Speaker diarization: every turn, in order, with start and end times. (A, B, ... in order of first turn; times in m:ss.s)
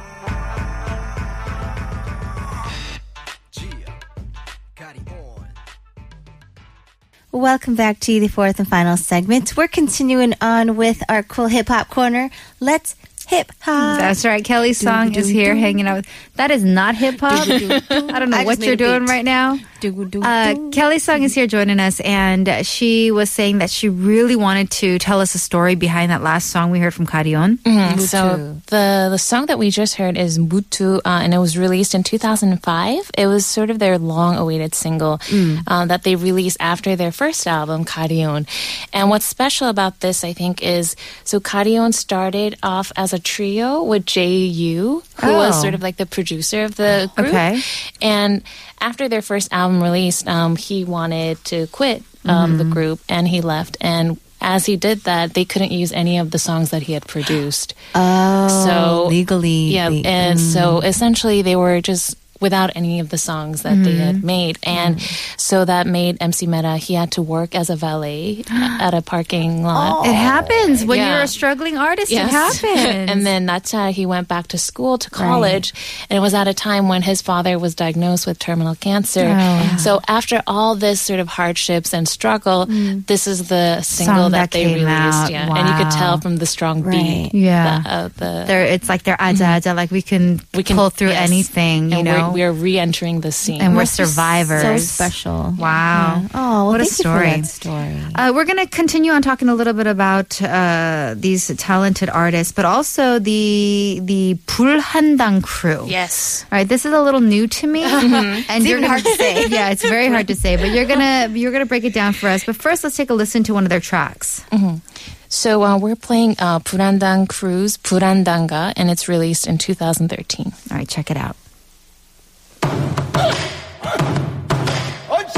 0:07.3-0:14.2 A
0:13.8-0:19.6 B
0:14.8-0:15.9 A
0:17.3-0:21.3 A
0:17.3-0:18.1 C
0:20.2-0:27.6 B
0:27.6-0:57.8 C
0:27.8-0:28.6 A
0:35.3-0:35.7 A
0:45.2-0:45.8 B
0:47.2-0:47.6 B
0:52.2-0:52.8 A
0:57.9-1:00.9 A
0:58.5-1:10.0 C
1:03.7-1:04.2 B
1:04.7-1:05.1 A
1:09.7-1:10.9 A
1:10.0-1:13.3 B
1:10.9-1:11.3 C
1:12.1-1:28.6 C
1:15.2-1:15.6 A
1:19.2-1:19.9 B
1:19.6-1:19.9 A
1:22.7-1:23.0 A
1:23.9-1:26.2 B
1:26.8-1:27.3 A
1:27.3-1:27.9 B
1:28.5-1:32.4 B
1:29.3-1:29.6 C
1:30.5-1:33.8 C
1:33.6-1:37.5 B
1:33.7-1:38.2 A
1:38.1-1:46.0 B
1:45.8-1:46.4 C
1:46.5-1:54.5 B
1:48.0-1:48.5 C
1:48.5-1:49.6 A
1:49.0-1:49.5 C
1:54.5-2:00.6 C
2:00.7-2:01.4 B